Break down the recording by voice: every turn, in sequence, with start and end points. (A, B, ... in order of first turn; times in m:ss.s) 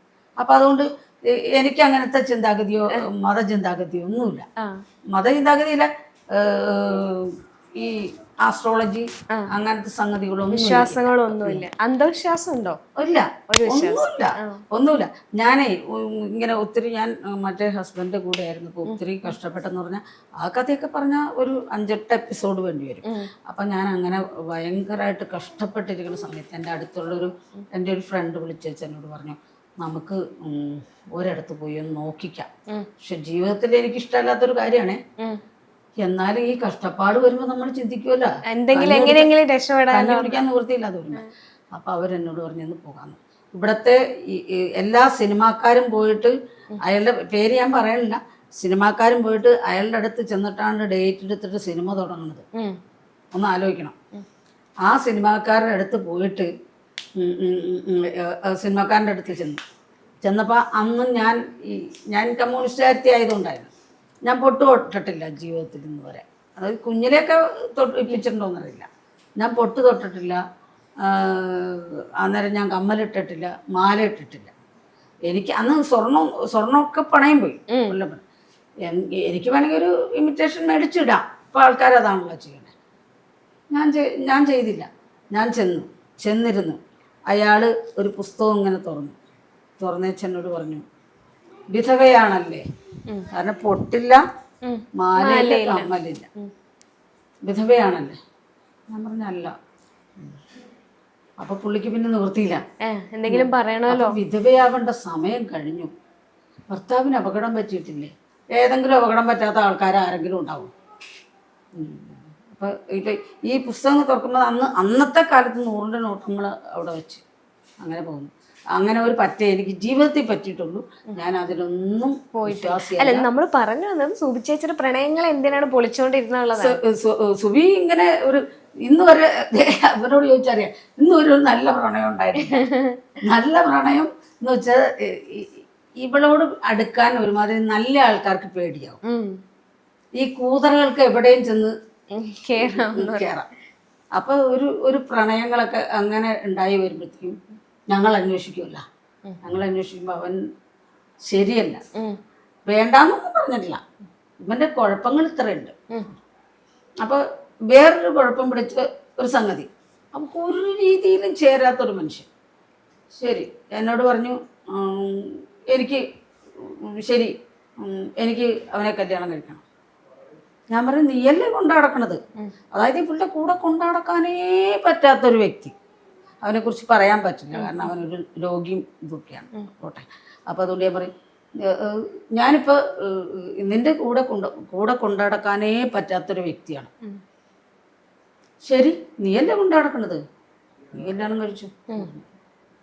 0:00.4-0:04.4 A
0:05.1-0:11.6 A
0:10.5-0:12.8 B
0:13.0-0:32.5 A
0:13.5-0:14.6 B
0:33.0-0:35.0 A
0:36.0-0:39.3 A
0:38.5-0:40.4 B
0:39.9-0:52.4 A
0:53.3-0:53.9 A
0:54.8-0:56.5 A
0:57.2-0:59.6 A
1:00.2-1:03.7 A
1:04.2-1:08.9 A
1:09.4-1:10.4 A
1:11.0-1:14.5 A
1:15.3-1:18.2 A
1:17.7-1:18.0 B
1:18.8-1:22.7 A
1:23.7-1:26.8 A
1:27.3-1:29.2 A
1:29.8-1:30.8 A
1:31.7-1:32.6 A
1:33.3-1:34.2 A
1:34.6-1:36.5 B
1:35.0-1:36.3 A
1:37.4-1:38.2 A
1:38.9-1:39.5 A
1:41.4-1:42.6 A
1:42.8-1:44.2 B
1:43.2-1:45.9 A
1:46.7-1:50.7 A
1:51.7-1:57.2 A
1:57.8-2:03.2 A
2:02.4-2:06.8 B
2:06.5-2:12.6 A
2:12.4-2:13.0 B
2:13.2-2:19.0 A
2:19.0-2:19.4 B
2:20.2-2:21.7 A
2:22.1-2:23.3 B
2:22.6-2:23.5 A
2:24.1-2:27.4 A
2:27.9-2:28.8 A
2:29.4-2:30.4 A
2:31.2-2:31.8 A
2:32.6-2:33.8 A
2:34.4-2:35.7 A
2:37.0-2:42.2 A
2:43.1-2:46.0 A
2:46.6-2:49.6 A
2:50.7-2:52.2 A
2:52.7-2:55.7 A
2:56.4-3:06.9 A
2:57.5-2:57.9 B
3:08.6-3:10.2 A
3:10.9-3:12.2 A